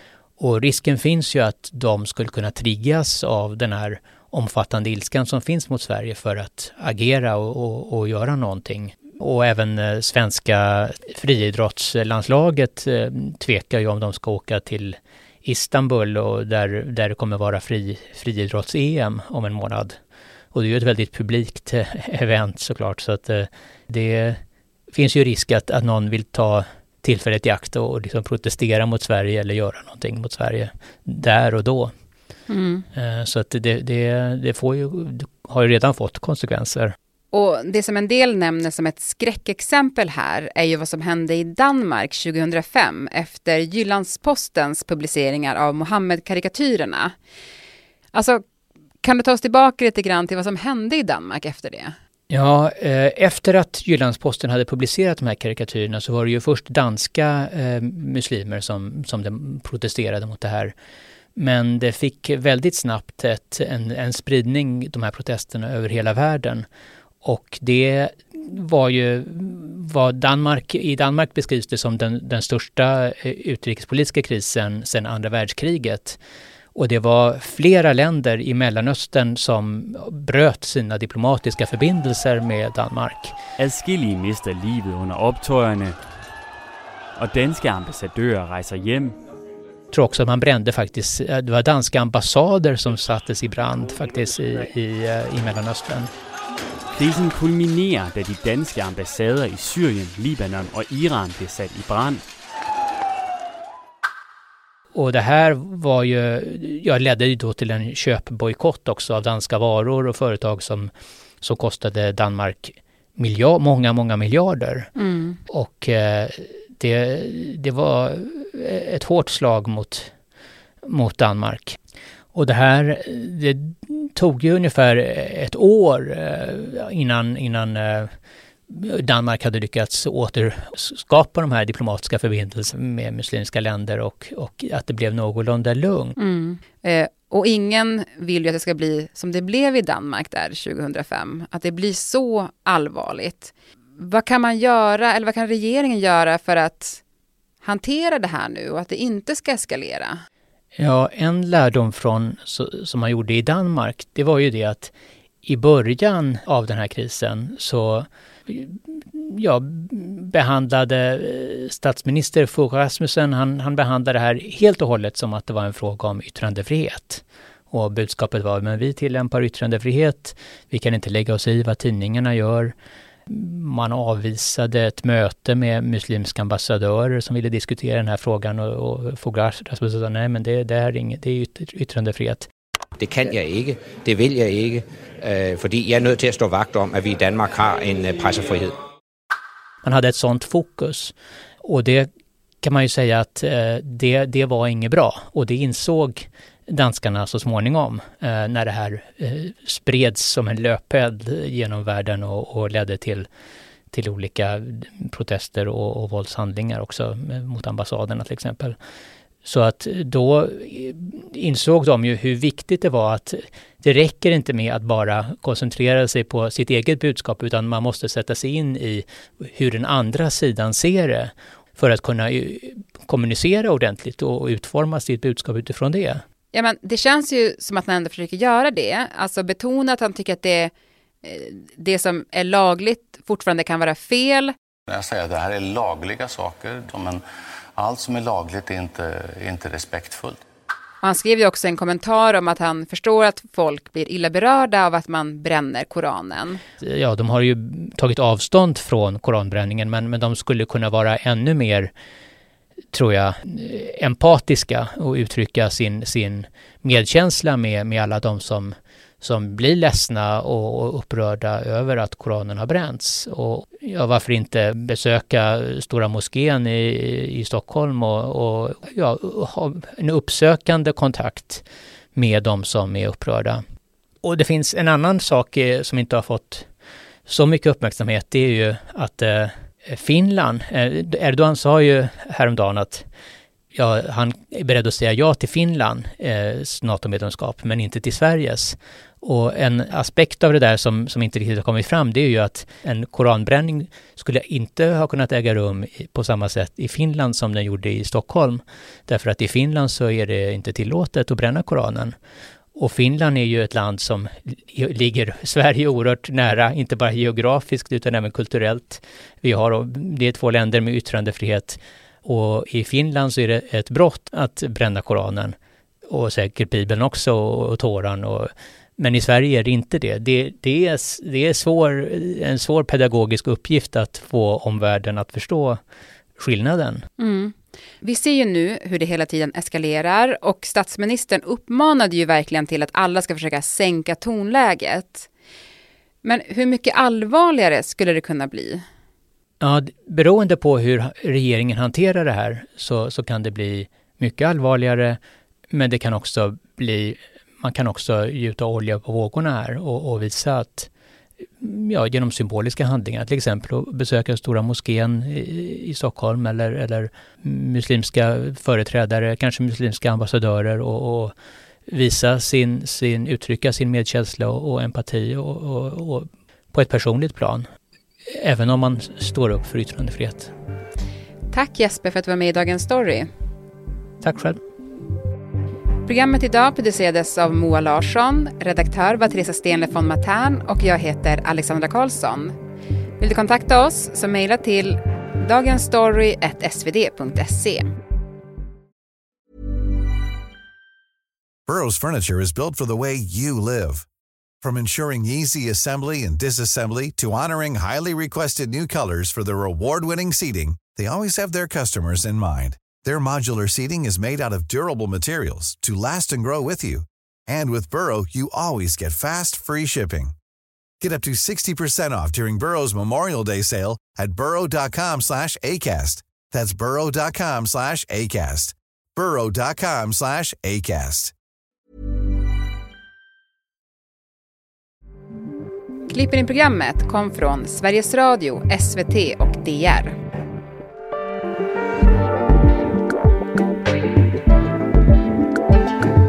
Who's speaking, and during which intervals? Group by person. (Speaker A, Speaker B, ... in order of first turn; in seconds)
Speaker A: 0.4-19.9, 20.5-24.4, 24.9-31.9, 32.9-37.0, 52.3-60.7, 61.4-66.7, 67.2-76.2, 76.8-83.4, 89.9-96.1, 104.9-114.9, 115.5-120.1, 120.8-121.8, 122.3-128.1, 128.7-136.2, 150.8-154.9, 155.4-172.7, 173.3-182.5, 189.8-192.1, 192.6-203.3, 203.9-208.8, 209.4-226.2, 246.8-251.9, 252.9-271.6, 272.1-273.6, 274.2-276.7, 277.3-283.1, 283.7-302.1, 302.8-315.6, 316.1-325.8, 326.4-327.1, 339.6-345.2, 345.7-350.9, 351.6-361.3, 361.9-367.6, 368.4-370.5, 374.2-374.6
Speaker B: 32.5-32.9, 37.3-47.1, 48.1-48.4, 49.0-52.0, 115.0-115.4, 136.2-147.0, 147.6-150.2, 226.5-230.7, 231.2-234.5, 241.0-246.6, 327.2-335.3, 336.2-338.8, 371.5-373.3, 376.1-382.6, 383.2-387.9, 426.1-430.2
Speaker C: 83.6-86.0, 87.2-89.2, 97.0-102.2
Speaker D: 183.0-188.7
Speaker E: 234.9-237.2, 237.8-240.4
Speaker F: 391.7-394.1, 394.6-410.4, 411.0-421.3